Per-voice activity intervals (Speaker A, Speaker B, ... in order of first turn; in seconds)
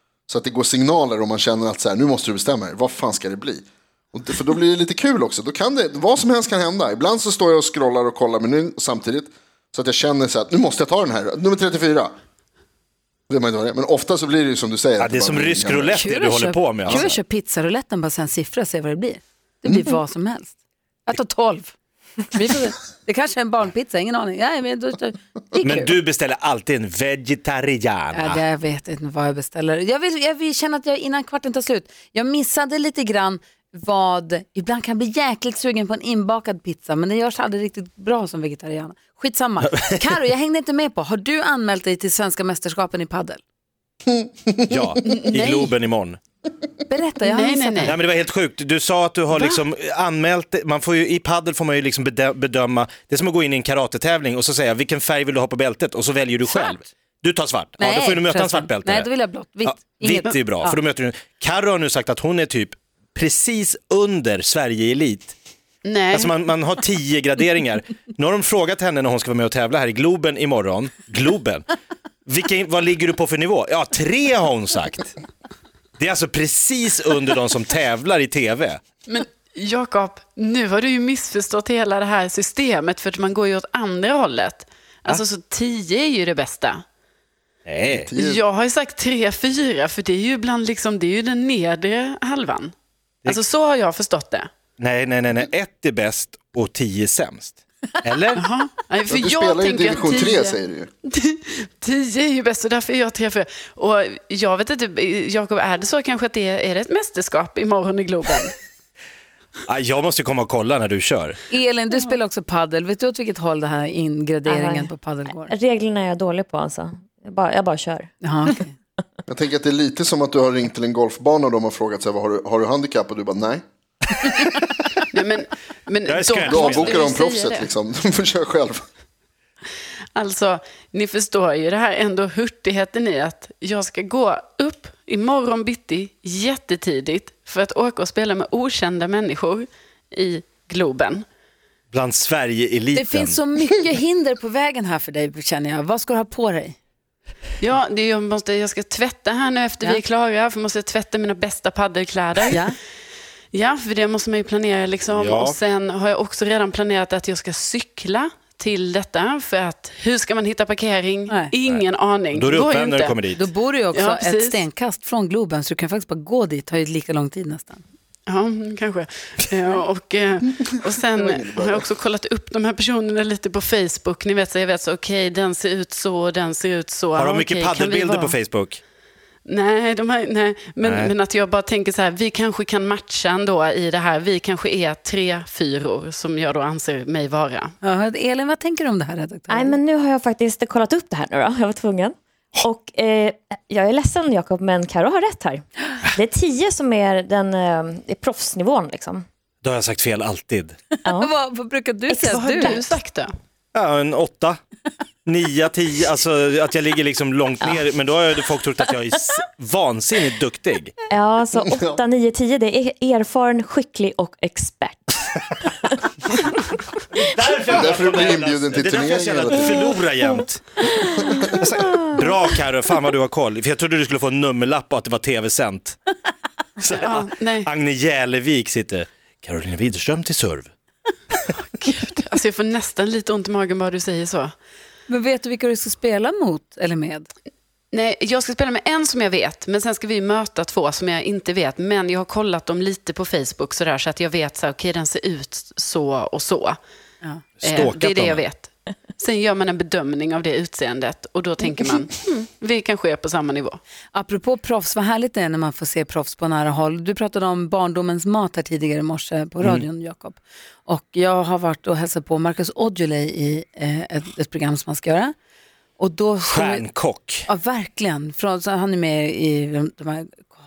Speaker A: 0.3-12.1, 13.3-16.1, 87.9-88.4, 99.1-100.9, 119.3-123.6, 126.5-128.8, 171.1-172.0, 211.6-212.0, 217.7-219.9
Speaker B: 15.0-17.2, 25.6-28.4, 44.7-46.2, 47.8-59.1, 59.6-65.3, 66.1-71.7, 72.3-75.2, 76.0-78.8, 87.7-88.1, 94.8-98.4, 109.7-111.4, 126.1-127.0, 141.9-143.4, 155.1-155.6, 161.7-163.4, 177.2-178.8, 180.8-181.1, 199.6-200.8, 203.7-204.6, 205.3-211.0, 217.2-220.8, 221.6-226.0, 226.8-230.7, 247.6-248.4, 266.5-267.5
Speaker C: 15.9-20.5, 21.1-21.8, 22.3-26.0, 28.1-43.4, 45.3-45.6, 46.9-48.0, 56.5-56.8, 57.8-60.8, 111.5-115.5, 118.2-118.7, 142.9-146.8, 152.5-152.8, 163.4-167.8, 187.8-189.8, 201.2-202.8, 235.1-237.3, 254.1-265.4, 266.0-266.9, 267.5-270.6
Speaker D: 47.2-48.0, 65.8-66.4, 79.1-86.8, 88.2-92.7, 93.2-94.5, 98.3-108.5, 125.1-127.7, 130.2-141.2, 147.6-152.6, 153.5-163.2, 163.9-164.6, 168.3-178.4, 179.5-187.7, 202.1-203.3, 226.8-227.7, 231.6-234.5, 237.9-246.8, 247.6-253.8
Speaker E: 114.5-118.1, 189.5-199.2, 201.1-201.3, 211.1-215.2, 221.0-221.3